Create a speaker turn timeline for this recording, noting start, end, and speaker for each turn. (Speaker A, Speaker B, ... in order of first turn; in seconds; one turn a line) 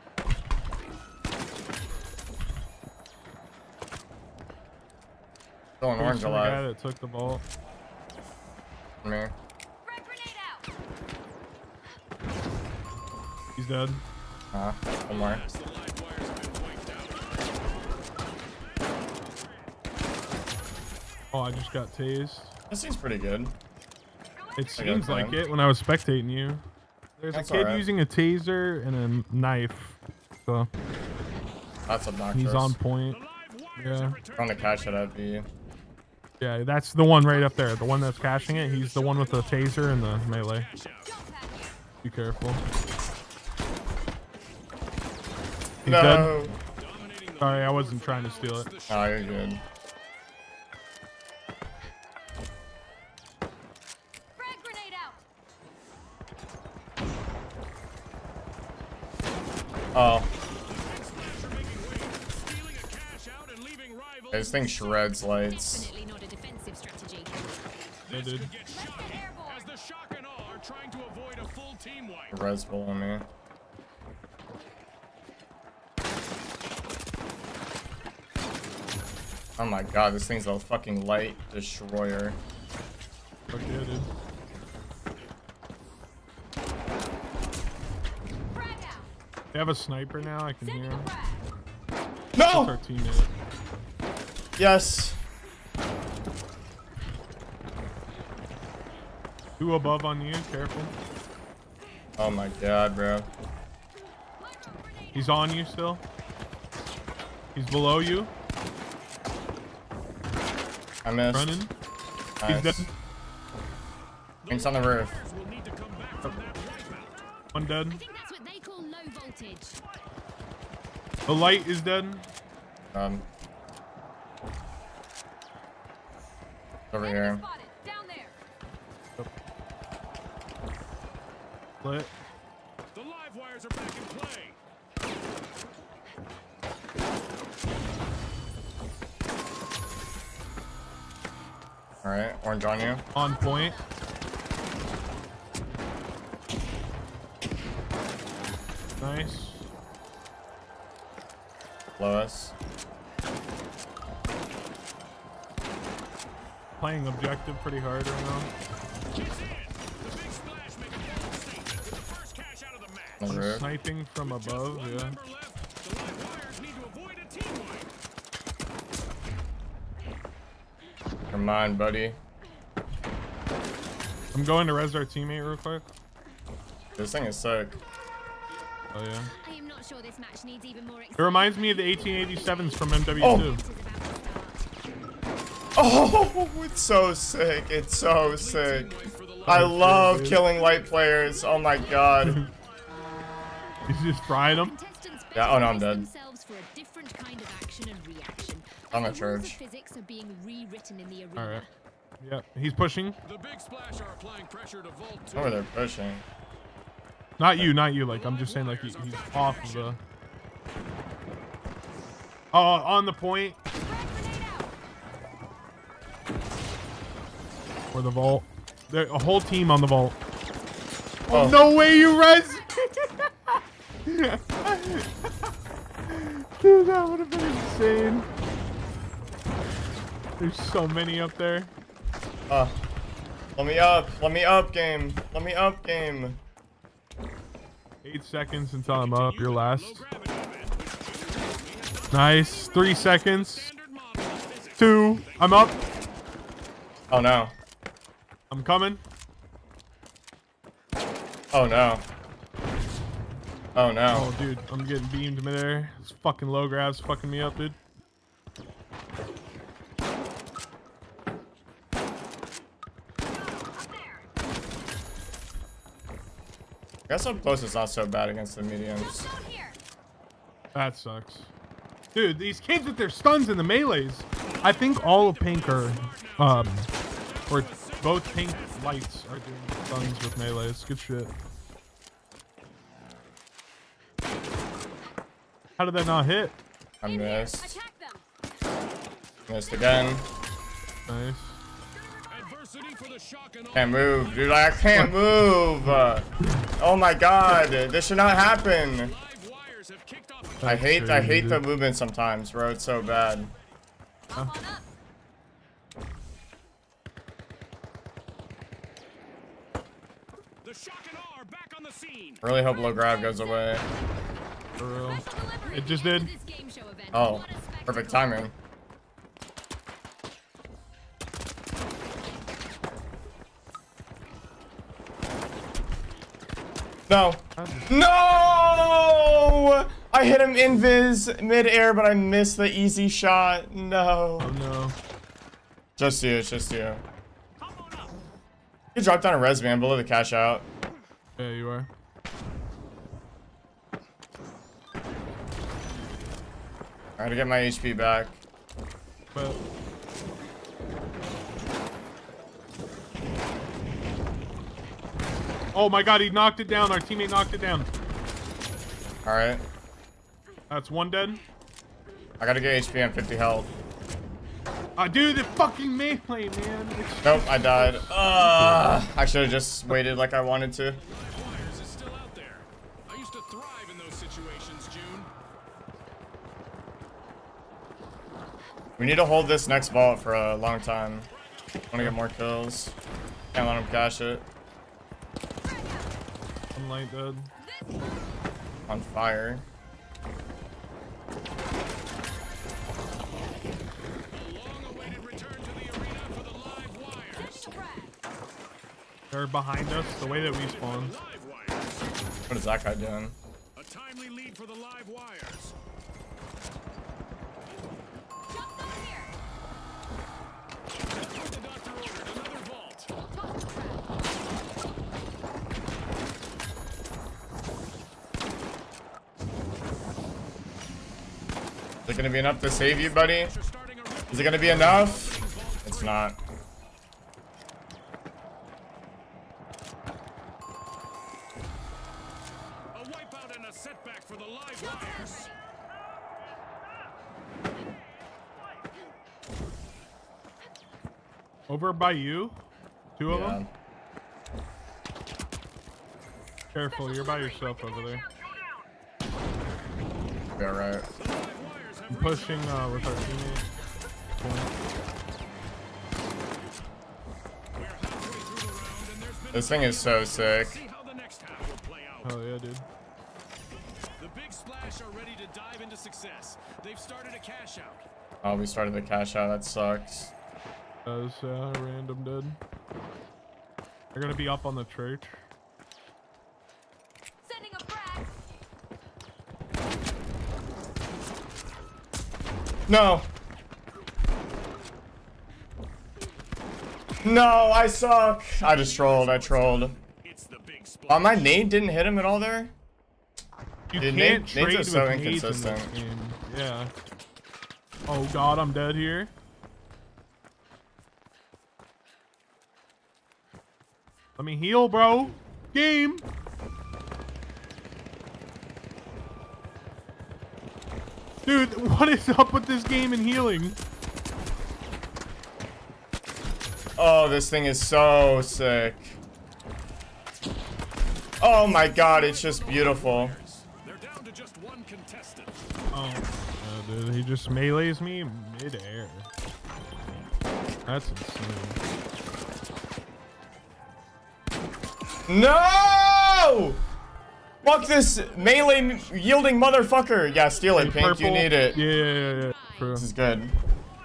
Speaker A: 5.8-6.6
Speaker B: 6.0-7.4
Speaker A: 9.0-9.3
Speaker C: 9.8-10.7
Speaker B: 13.6-14.0
Speaker A: 14.5-15.4
Speaker D: 15.1-17.2
Speaker B: 21.3-22.5
Speaker A: 22.7-23.5
Speaker B: 24.6-26.6
Speaker A: 24.8-25.4
Speaker B: 27.2-30.7
Speaker A: 27.3-27.8
Speaker A: 31.9-32.8
Speaker B: 32.3-33.2
Speaker D: 33.1-34.9
Speaker B: 33.8-34.2
Speaker A: 34.4-35.5
Speaker B: 36.4-40.7
Speaker C: 37.3-37.9
Speaker D: 38.1-41.1
Speaker C: 41.1-41.8
Speaker B: 42.0-42.6
Speaker B: 45.8-46.4
Speaker A: 45.8-46.5
Speaker D: 46.8-49.5
Speaker B: 47.4-48.7
Speaker A: 48.9-49.6
Speaker C: 54.4-55.2
Speaker A: 59.9-60.3
Speaker D: 60.7-64.4
Speaker A: 64.3-65.9
Speaker C: 64.7-67.4
Speaker D: 68.1-72.3
Speaker B: 68.1-68.5
Speaker C: 68.7-69.7
Speaker A: 72.3-73.3
Speaker A: 79.6-82.4
Speaker B: 83.5-84.1
Speaker C: 88.5-89.1
Speaker B: 89.5-91.1
Speaker C: 90.6-91.4
Speaker A: 92.3-92.7
Speaker B: 92.5-93.3
Speaker A: 94.6-95.2
Speaker B: 99.6-100.9
Speaker A: 102.2-103.3
Speaker C: 104.4-105.3
Speaker B: 105.1-106.0
Speaker B: 107.5-108.3
Speaker A: 111.0-111.6
Speaker B: 111.3-111.7
Speaker A: 112.4-112.9
Speaker B: 112.5-112.9
Speaker D: 114.4-117.2
Speaker A: 114.5-115.2
Speaker B: 117.5-118.0
Speaker C: 117.9-119.8
Speaker B: 121.3-122.3
Speaker A: 122.9-123.2
Speaker A: 126.9-127.4
Speaker C: 127.0-128.4
Speaker B: 131.8-132.1
Speaker D: 132.9-134.6
Speaker A: 142.0-143.0
Speaker B: 143.1-143.8
Speaker C: 143.2-143.9
Speaker B: 149.0-149.7
Speaker A: 152.0-152.5
Speaker B: 156.8-158.5
Speaker D: 159.1-163.7
Speaker A: 163.2-163.7
Speaker B: 163.2-165.2
Speaker D: 164.2-167.9
Speaker A: 171.3-172.2
Speaker B: 174.3-175.8
Speaker A: 176.9-177.8
Speaker B: 178.9-179.3
Speaker C: 179.4-184.6
Speaker B: 181.2-183.6
Speaker A: 183.2-183.5
Speaker A: 185.8-192.4
Speaker D: 188.3-189.7
Speaker B: 189.4-190.4
Speaker C: 191.5-192.1
Speaker B: 192.2-192.5
Speaker B: 193.8-194.8
Speaker C: 194.4-201.6
Speaker A: 195.3-196.1
Speaker A: 198.9-199.6
Speaker B: 201.3-201.7
Speaker B: 202.2-203.2
Speaker D: 203.2-205.6
Speaker A: 205.3-206.2
Speaker B: 207.4-210.0
Speaker D: 208.0-210.0
Speaker B: 212.5-213.6
Speaker C: 213.8-214.7
Speaker B: 217.9-220.2
Speaker A: 221.3-221.7
Speaker B: 221.3-225.3
Speaker B: 226.1-228.3
Speaker B: 230.4-231.7
Speaker A: 232.5-232.8
Speaker A: 233.6-236.4
Speaker B: 238.0-240.0
Speaker D: 238.9-245.8
Speaker B: 242.1-243.7
Speaker B: 244.8-245.8
Speaker A: 247.1-247.5
Speaker B: 248.5-249.0
Speaker A: 251.5-252.0
Speaker A: 253.7-254.3
Speaker B: 254.1-257.8
Speaker C: 263.6-264.2
Speaker A: 267.1-269.3
Speaker C: 269.2-269.8
Speaker B: 270.7-271.5
Speaker B: 272.1-276.9
Speaker D: 274.5-278.9
Speaker B: 277.5-281.3
Speaker B: 285.8-286.6
Speaker A: 287.0-287.8
Speaker C: 287.0-288.2
Speaker A: 289.5-290.3
Speaker B: 291.1-291.6
Speaker D: 292.3-294.6
Speaker A: 293.7-299.1
Speaker D: 298.9-300.7
Speaker B: 300.6-301.6
Speaker A: 300.6-303.5
Speaker C: 304.3-304.9
Speaker D: 310.6-312.4
Speaker A: 312.4-313.8
Speaker C: 313.1-313.9
Speaker B: 314.8-316.3
Speaker C: 315.1-318.4
Speaker A: 317.1-318.5
Speaker A: 327.1-334.5
Speaker B: 327.6-328.0
Speaker B: 334.4-334.9
Speaker A: 336.0-337.0
Speaker D: 337.6-338.1
Speaker A: 338.9-340.6
Speaker B: 341.4-341.9
Speaker A: 347.2-348.4
Speaker B: 349.3-349.6
Speaker B: 355.7-357.9
Speaker A: 359.2-359.6
Speaker B: 360.7-361.4
Speaker A: 362.4-363.7
Speaker B: 365.0-369.0
Speaker A: 367.2-371.0
Speaker D: 370.9-375.3
Speaker A: 379.0-381.3
Speaker A: 381.9-382.9
Speaker A: 383.5-384.5
Speaker C: 385.7-386.0
Speaker B: 386.7-387.5
Speaker C: 387.6-388.1
Speaker A: 388.9-389.6
Speaker D: 394.3-397.7
Speaker C: 397.4-398.1
Speaker B: 399.3-401.1
Speaker D: 400.2-402.1
Speaker A: 402.5-403.3
Speaker D: 403.8-405.7
Speaker C: 408.6-409.3
Speaker D: 411.1-413.1
Speaker C: 413.3-414.1
Speaker A: 422.1-423.5
Speaker D: 422.8-426.2
Speaker A: 424.3-425.3
Speaker B: 424.6-425.1
Speaker A: 425.8-426.4
Speaker D: 432.9-435.5
Speaker C: 435.2-435.6
Speaker B: 441.7-442.6
Speaker B: 443.1-443.6
Speaker A: 443.3-443.7
Speaker B: 446.7-448.2
Speaker A: 450.6-451.1
Speaker D: 451.2-453.0
Speaker B: 452.1-453.7
Speaker B: 454.4-454.7
Speaker D: 457.7-462.3
Speaker A: 459.5-460.8
Speaker B: 462.2-462.9
Speaker D: 464.2-468.0
Speaker A: 468.4-470.3
Speaker B: 471.0-472.6
Speaker B: 474.1-475.4
Speaker C: 477.4-478.3
Speaker A: 482.9-483.3
Speaker A: 487.2-489.9
Speaker D: 488.6-491.4
Speaker A: 491.1-492.7
Speaker B: 493.9-496.9
Speaker A: 493.9-495.9
Speaker B: 498.1-499.3
Speaker B: 504.4-506.2
Speaker B: 511.4-513.8
Speaker A: 517.0-519.2
Speaker A: 521.4-523.4
Speaker D: 521.9-525.7
Speaker B: 525.9-529.3
Speaker B: 530.9-531.8
Speaker A: 535.3-536.8
Speaker A: 537.6-541.8
Speaker B: 540.7-543.1
Speaker C: 542.0-542.9
Speaker A: 542.9-543.5